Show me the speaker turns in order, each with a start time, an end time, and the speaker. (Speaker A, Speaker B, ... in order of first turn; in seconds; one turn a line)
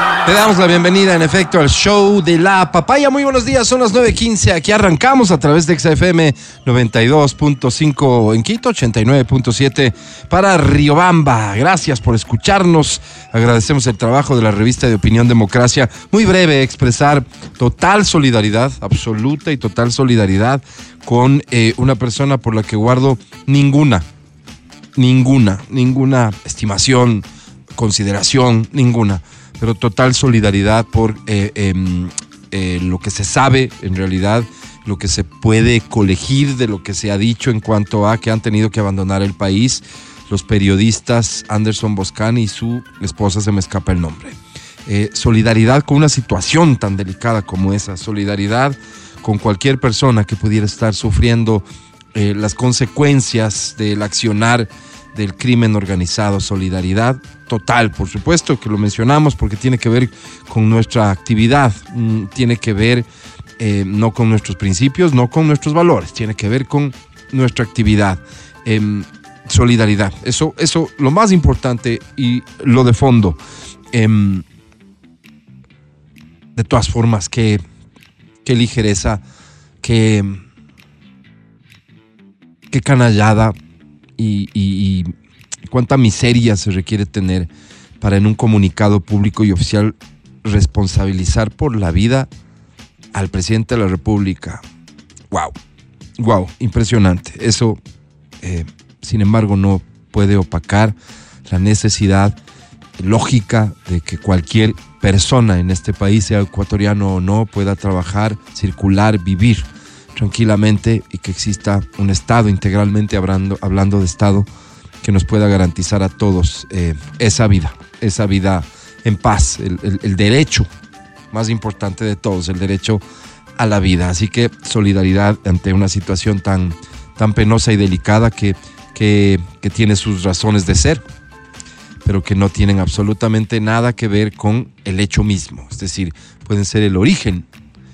Speaker A: 0.3-24.1
Speaker A: 24.9-63.1
Speaker A: 63.6-73.4
Speaker A: 73.9-74.5
Speaker A: 76.5-77.6
Speaker A: 78.4-79.2
Speaker A: 79.8-80.4
Speaker A: 82.7-83.6
Speaker A: 84.2-85.1
Speaker A: 85.7-87.5
Speaker A: 88.0-92.3
Speaker A: 93.1-94.6
Speaker A: 96.2-97.8
Speaker A: 98.4-101.0
Speaker A: 101.5-102.4
Speaker A: 103.0-114.5
Speaker A: 115.0-120.7
Speaker A: 121.3-123.0
Speaker A: 123.6-131.0
Speaker A: 132.0-137.5